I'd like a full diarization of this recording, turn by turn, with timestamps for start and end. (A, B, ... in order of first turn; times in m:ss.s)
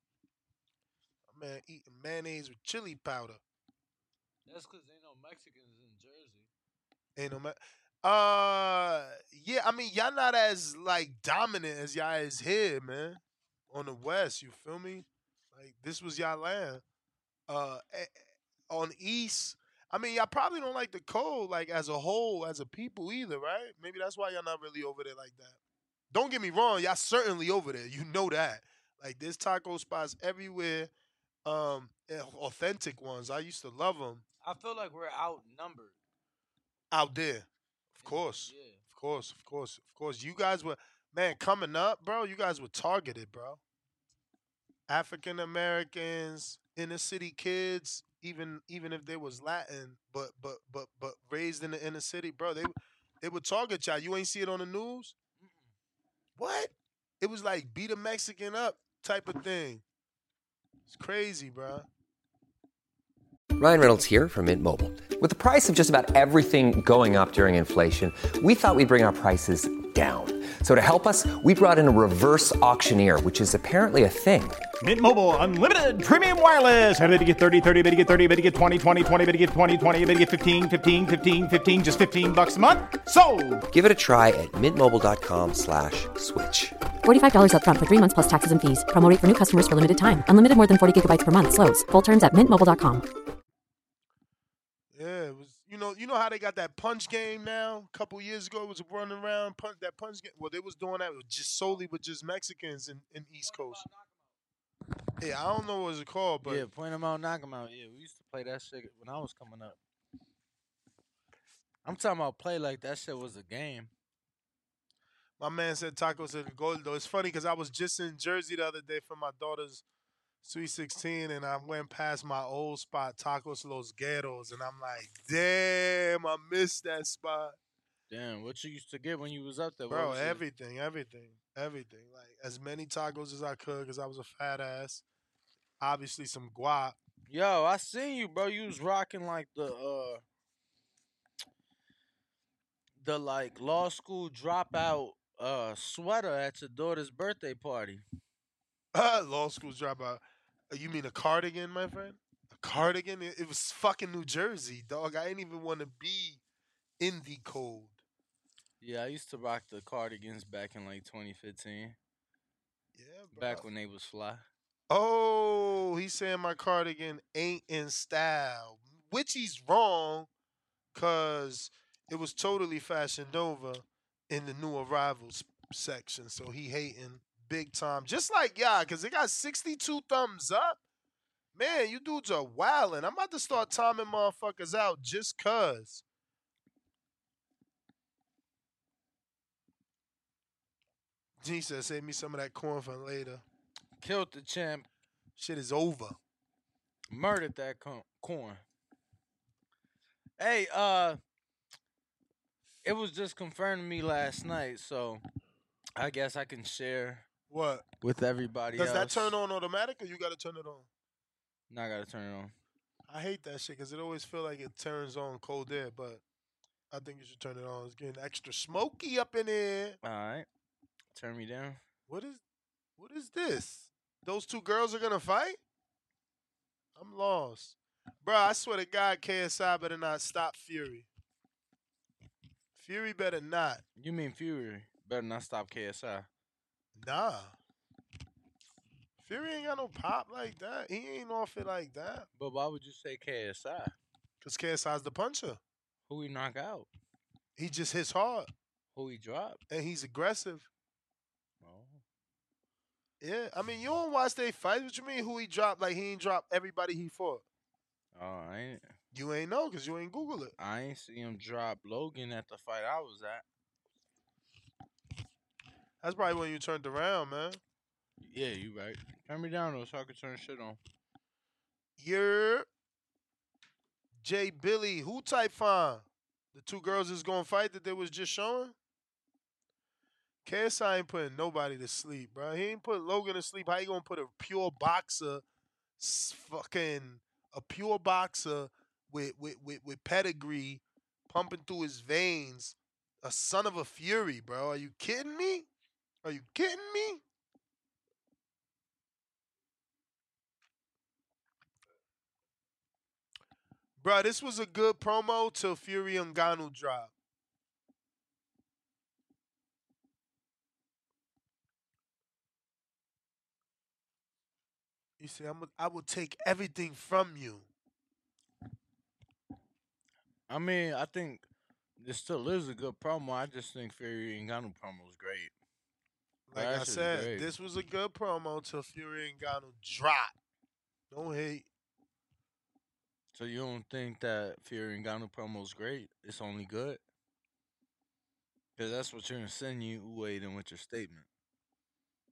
0:01.3-0:03.4 A
0:04.5-0:06.5 B
0:07.2-0:16.8 A
0:17.5-0:18.2 A
0:18.7-0:25.6 A
0:26.1-0:30.9 A
0:31.4-0:34.2 A
0:34.4-0:35.9 B
0:36.9-0:43.6 A
0:38.0-0:38.8 B
0:44.9-0:55.1 A
0:55.4-0:55.6 B
0:56.4-0:59.8 A
1:00.9-1:01.9 A
1:03.6-1:14.6 C
1:14.8-1:23.6 D
1:23.7-1:26.8 C
1:27.0-1:33.0 E
1:34.9-1:43.8 A
1:45.2-1:46.7 A
1:46.4-1:49.8 B
1:51.8-1:53.9 B
1:55.4-1:59.8 A
2:00.4-2:07.6 A
2:08.1-2:10.4 B
2:09.9-2:15.0 A
2:15.8-2:17.0 A
2:17.3-2:20.2 B
2:23.0-2:28.0 B
2:28.9-2:36.4 A
2:37.0-2:38.0 A
2:38.8-2:42.0 B
2:42.9-2:43.6 A
2:43.3-2:44.4 B
2:44.9-2:50.3 A
2:50.9-3:00.8 A
3:01.5-3:06.0 A
3:11.4-3:13.4 A
3:14.0-3:14.9 B
3:15.4-3:16.2 A
3:17.1-3:18.6 B
3:20.4-3:21.2 B
3:22.8-3:25.2 B
3:26.0-3:27.3 B
3:27.5-3:27.8 A
3:28.0-3:29.3 B
3:28.7-3:30.9 A
3:31.7-3:32.5 B
3:33.1-3:36.2 A
3:36.9-3:40.0 A
3:40.0-3:40.5 B
3:41.1-3:41.8 B
3:42.1-3:42.4 A
3:43.0-3:45.6 A
3:47.0-3:51.1 A
3:52.8-3:53.8 A
3:54.0-3:56.3 B
3:57.0-3:57.5 A
3:59.2-4:02.3 A
4:02.4-4:03.9 B
4:04.4-4:05.6 A
4:06.1-4:06.9 B
4:07.6-4:08.5 A
4:08.9-4:09.6 B
4:09.7-4:10.7 A
4:11.6-4:12.0 B
4:13.2-4:17.4 A
4:18.1-4:18.9 B
4:19.1-4:20.5 A
4:20.6-4:23.4 B
4:26.0-4:27.6 A
4:28.2-4:30.8 B
4:32.0-4:32.7 A
4:34.2-4:38.7 A
4:40.4-4:45.4 A
4:46.0-4:55.7 A
4:56.2-4:57.2 A
5:04.0-5:07.1 A
5:15.2-5:17.7 A
5:20.5-5:21.4 B
5:22.0-5:25.5 B
5:26.5-5:30.3 A
5:26.5-5:27.5 B
5:31.1-5:31.6 A
5:33.3-5:37.0 B
5:38.8-5:41.2 B